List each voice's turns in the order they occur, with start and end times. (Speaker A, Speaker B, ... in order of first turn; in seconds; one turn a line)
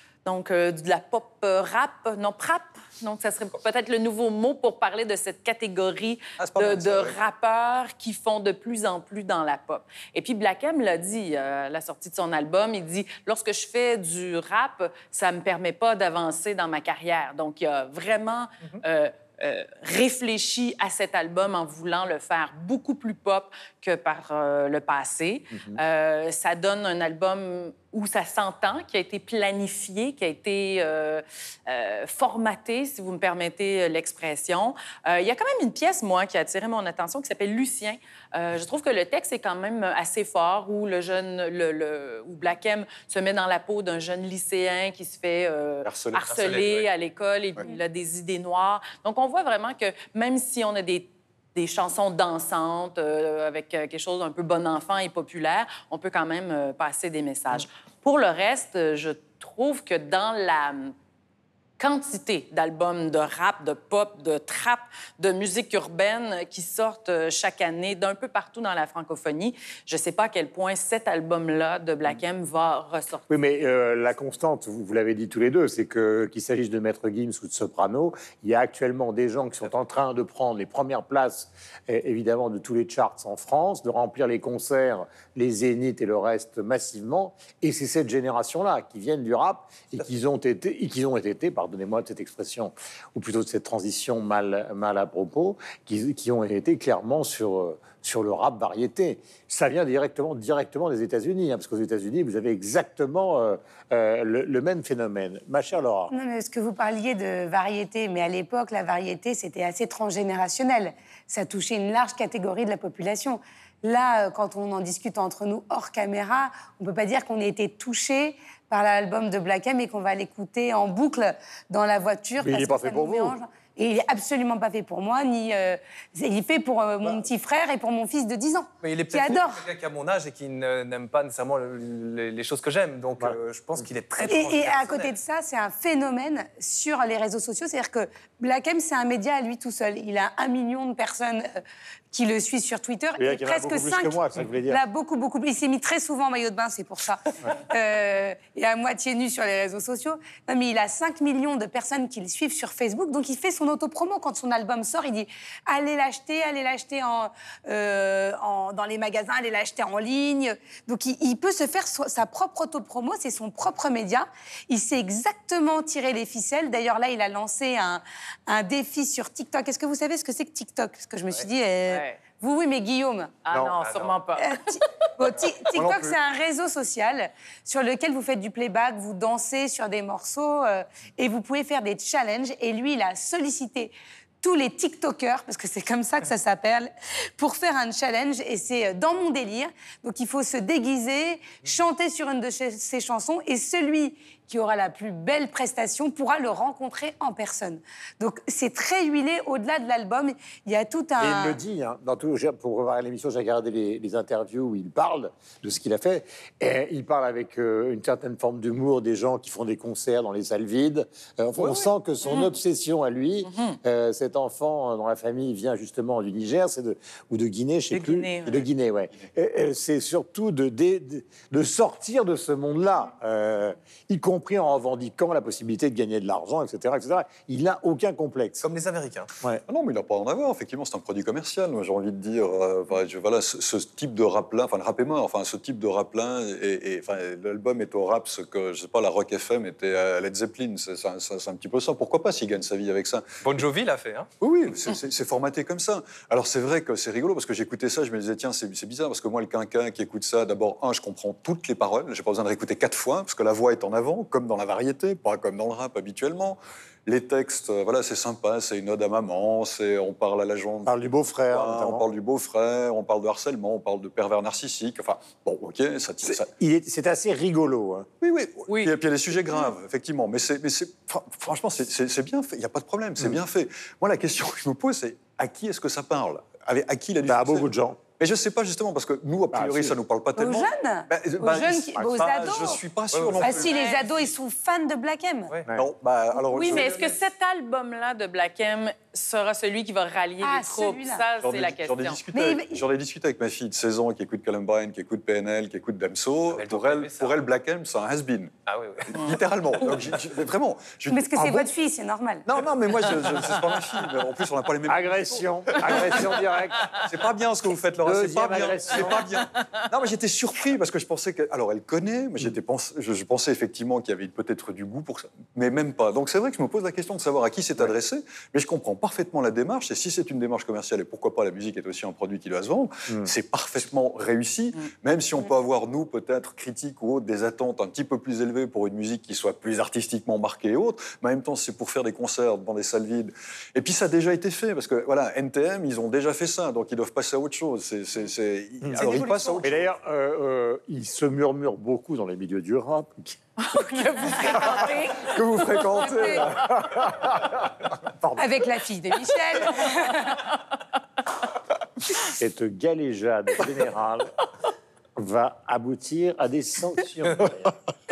Speaker A: 0.2-60.9
Speaker B: 6.4-7.2
Speaker C: 25.5-25.8
Speaker B: 45.8-46.3
Speaker D: 46.2-46.9
Speaker A: 61.8-73.5
Speaker C: 73.3-106.1
Speaker E: 106.1-129.6
Speaker C: 122.4-123.3
Speaker D: 128.8-135.1
Speaker E: 134.3-141.6
Speaker E: 142.1-173.4
Speaker C: 143.2-144.8
Speaker A: 171.9-172.2
Speaker A: 173.4-174.6
Speaker D: 173.8-174.1
Speaker E: 174.4-201.6
Speaker B: 175.7-176.1
Speaker C: 201.2-228.6
Speaker A: 213.4-213.7
Speaker A: 217.9-218.6
Speaker D: 228.6-229.3
Speaker B: 229.7-243.2
Speaker D: 243.4-244.3
Speaker B: 244.4-260.9
Speaker C: 260.9-262.0
Speaker B: 261.5-266.5
Speaker C: 266.3-268.1
Speaker B: 268.2-283.8
Speaker A: 268.7-268.9
Speaker C: 277.2-278.0
Speaker C: 279.5-280.0
Speaker E: 280.4-282.8
Speaker D: 283.1-283.4
Speaker E: 283.4-285.5
Speaker A: 283.5-284.0
Speaker B: 285.7-287.1
Speaker A: 286.4-292.2
Speaker E: 286.6-286.9
Speaker E: 290.4-291.2
Speaker B: 291.4-298.5
Speaker E: 292.3-292.8
Speaker D: 296.5-297.4
Speaker D: 298.7-299.3
Speaker B: 299.1-301.7
Speaker E: 301.1-302.4
Speaker B: 302.4-306.2
Speaker C: 304.9-306.9
Speaker B: 307.0-339.9
Speaker C: 308.0-309.3
Speaker C: 339.6-343.4
Speaker A: 343.6-345.2
Speaker E: 343.8-344.9
Speaker B: 345.1-347.0
Speaker E: 346.0-346.5
Speaker C: 348.2-348.5
Speaker E: 348.4-350.5
Speaker C: 352.3-354.3
Speaker C: 355.1-357.7